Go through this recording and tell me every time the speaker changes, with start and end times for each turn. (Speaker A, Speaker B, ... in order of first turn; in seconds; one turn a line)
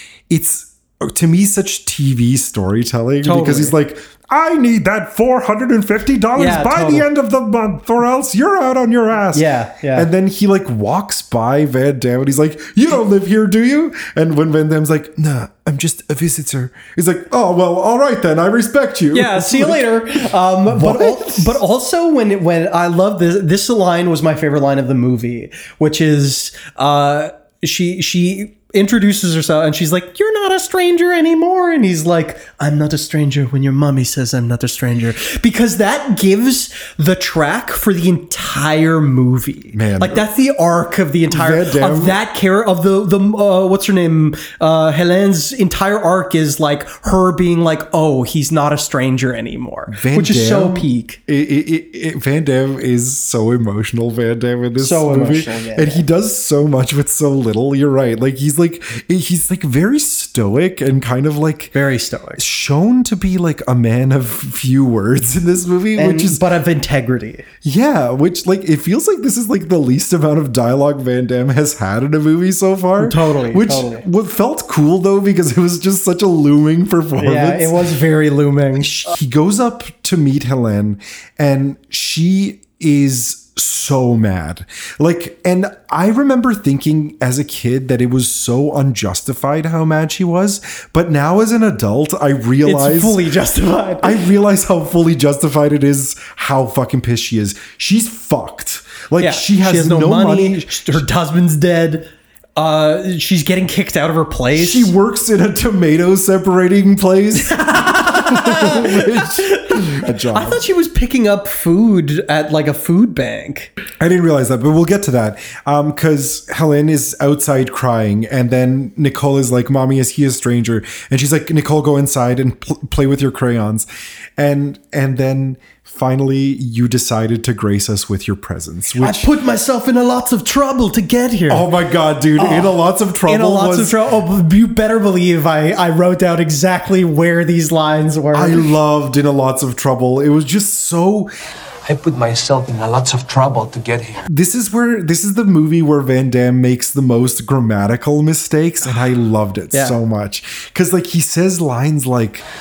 Speaker A: 0.3-19.9
Speaker B: 3.2-3.7
Speaker B: 6.4-7.1
Speaker B: 9.3-10.1
Speaker B: 19.1-51.2
Speaker A: 20.7-21.6
Speaker A: 39.7-40.2
Speaker A: 41.3-42.2
Speaker A: 49.9-61.7
Speaker B: 54.8-56.0
Speaker B: 61.7-62.4
Speaker A: 62.4-66.4
Speaker B: 66.0-67.5
Speaker A: 67.6-77.8
Speaker B: 73.0-74.0
Speaker B: 77.2-78.9
Speaker A: 78.8-93.2
Speaker B: 92.6-94.3
Speaker A: 94.0-101.0
Speaker B: 99.2-104.9
Speaker A: 104.6-110.6
Speaker B: 107.5-113.7
Speaker A: 114.0-129.3
Speaker B: 129.0-131.7
Speaker A: 131.5-133.9
Speaker B: 132.4-138.7
Speaker A: 138.3-141.3
Speaker C: 141.8-144.2
Speaker A: 144.3-152.4